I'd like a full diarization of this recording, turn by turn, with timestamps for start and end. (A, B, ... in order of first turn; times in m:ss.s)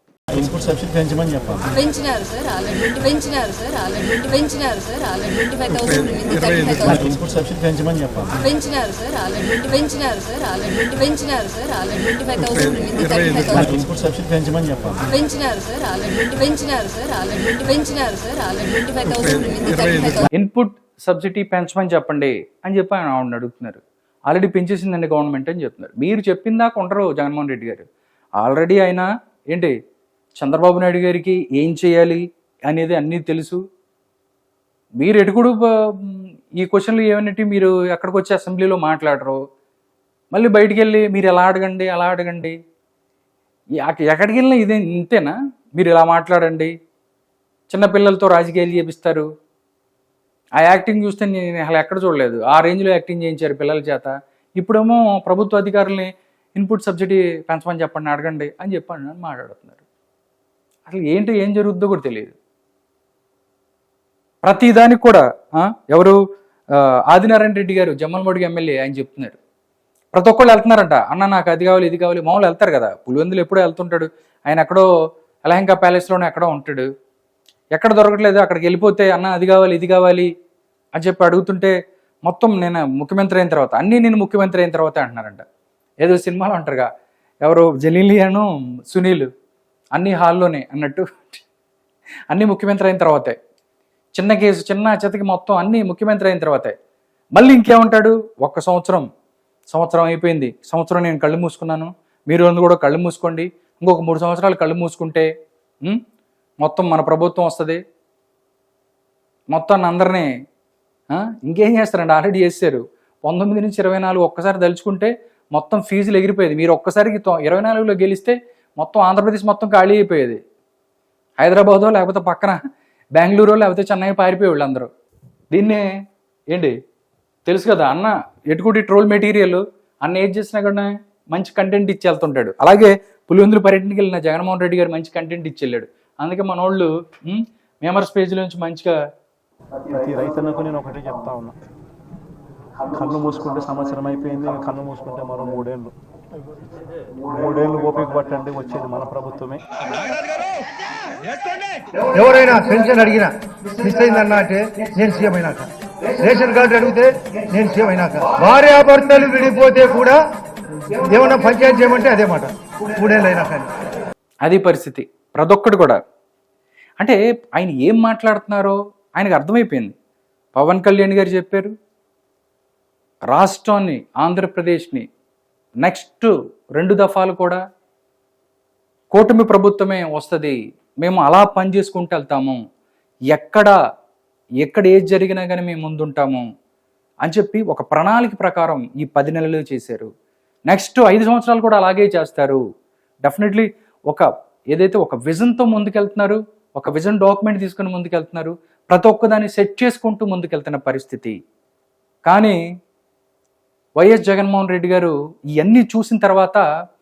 0:00.4-0:01.7 A
0:01.7-0:07.0 B
0:07.0-0:08.4 A
0:08.4-0:13.7 B
0:13.6-0:15.0 A
0:15.0-0:20.2 B
0:20.3-0:27.9 C
0:28.4-0:29.8 C
0:30.4-0:33.6 C
0:35.0-0:39.4 C
0:40.3-0:42.6 C
0:43.8-0:46.7 C
0:47.7-0:49.3 C
0:50.6-0:59.8 C
1:00.9-1:02.3 C
1:04.4-1:06.2 C
1:07.1-1:09.4 C
1:10.1-1:14.9 C
1:15.5-1:16.9 C
1:17.7-1:20.3 C
1:21.0-1:25.4 C
1:26.0-1:26.9 C
1:27.4-1:29.3 C
1:29.9-1:31.4 C
1:32.3-1:33.4 C
1:34.2-1:36.7 C
1:37.4-1:39.1 C
1:39.7-1:45.3 C
1:46.6-1:47.8 C
1:49.5-1:50.3 C
1:51.1-2:00.4 C
2:01.4-2:02.6 C
2:03.2-2:04.9 C
2:05.5-2:05.8 C
2:07.5-2:19.0 C
2:19.9-2:21.6 A
2:22.9-2:25.9 A
2:27.2-2:29.6 A
2:32.1-2:40.2 D
2:41.0-2:43.7 D
2:44.4-2:46.0 C
2:47.0-2:50.0 C
2:50.6-2:51.7 C
2:53.3-2:55.1 C
2:55.8-2:57.6 C
2:59.1-3:02.6 C
3:03.3-3:03.8 C
3:04.6-3:06.4 C
3:07.2-3:10.1 C
3:10.7-3:12.6 C
3:13.2-3:21.4 C
3:22.3-3:22.6 C
3:24.0-3:26.6 C